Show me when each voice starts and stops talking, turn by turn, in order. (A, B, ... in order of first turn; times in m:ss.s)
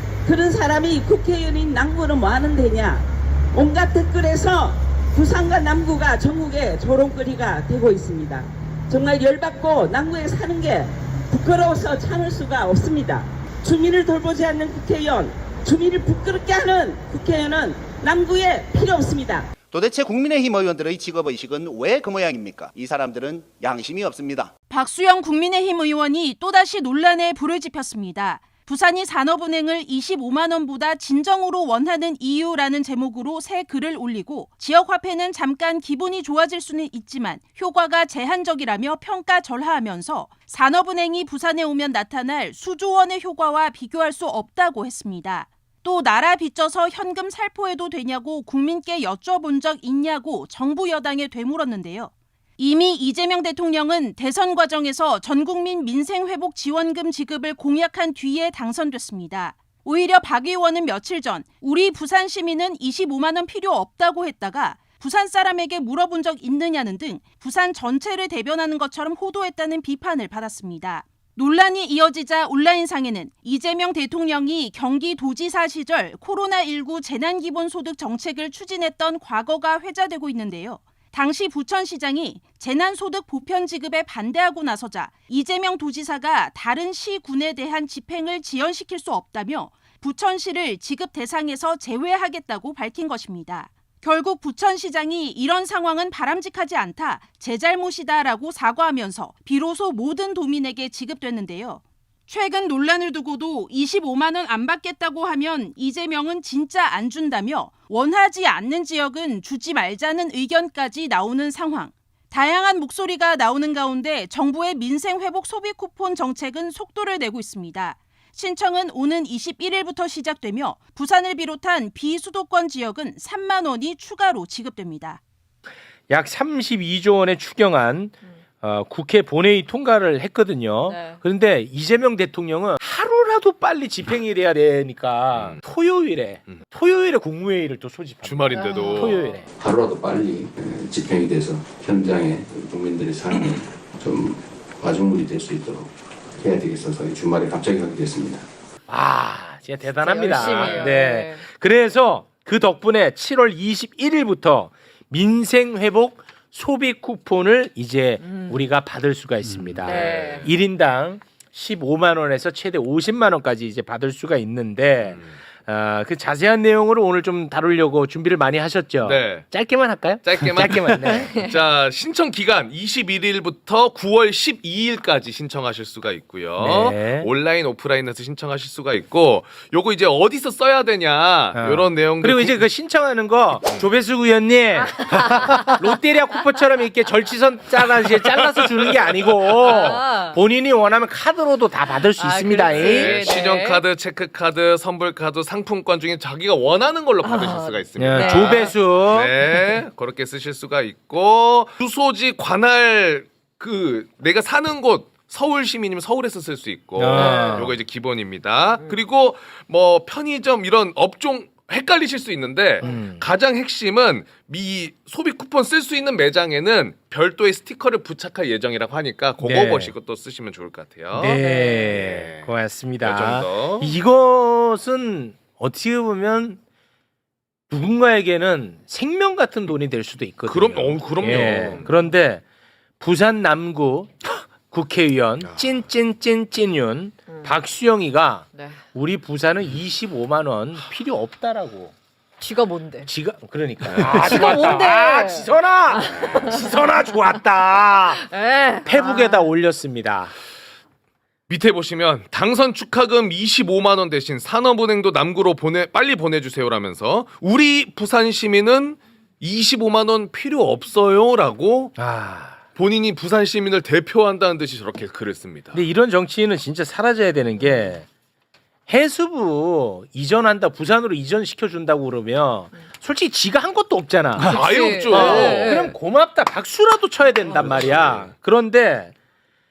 0:00.2-0:19.5 A
0:19.7-0:24.5 B
0:24.7-2:05.2 C
2:06.1-2:19.5 D
2:10.9-2:11.2 E
2:15.3-2:15.6 F
2:18.2-2:19.3 F
2:19.6-2:28.4 G
2:28.9-2:51.4 D
2:30.0-2:31.4 E
2:39.9-2:40.6 F
2:39.9-2:40.4 E
2:49.0-2:49.5 F
2:50.2-3:02.6 F
2:56.6-2:57.3 D
3:01.5-3:13.0 D
3:07.9-3:09.8 F
3:09.9-3:10.4 E
3:12.2-3:13.7 E
3:12.7-3:42.5 F
3:17.3-3:17.7 E
3:18.0-3:19.4 D
3:27.0-3:27.8 D
3:32.8-3:33.2 D
3:39.4-3:39.9 D
3:41.1-3:46.6 D
3:43.0-3:43.9 F
3:47.7-3:52.4 D
3:50.4-3:51.9 F
3:53.0-4:01.9 D
4:02.4-4:03.0 E
4:03.0-4:10.3 D
4:03.9-4:04.2 F
4:04.3-4:05.4 E
4:08.3-4:09.4 E
4:11.5-4:21.9 F
4:22.0-4:22.6 D
4:22.8-4:25.8 F
4:25.8-4:28.1 D
4:28.9-4:39.1 D
4:34.4-4:35.8 F
4:34.5-4:35.9 E
4:37.7-4:38.2 F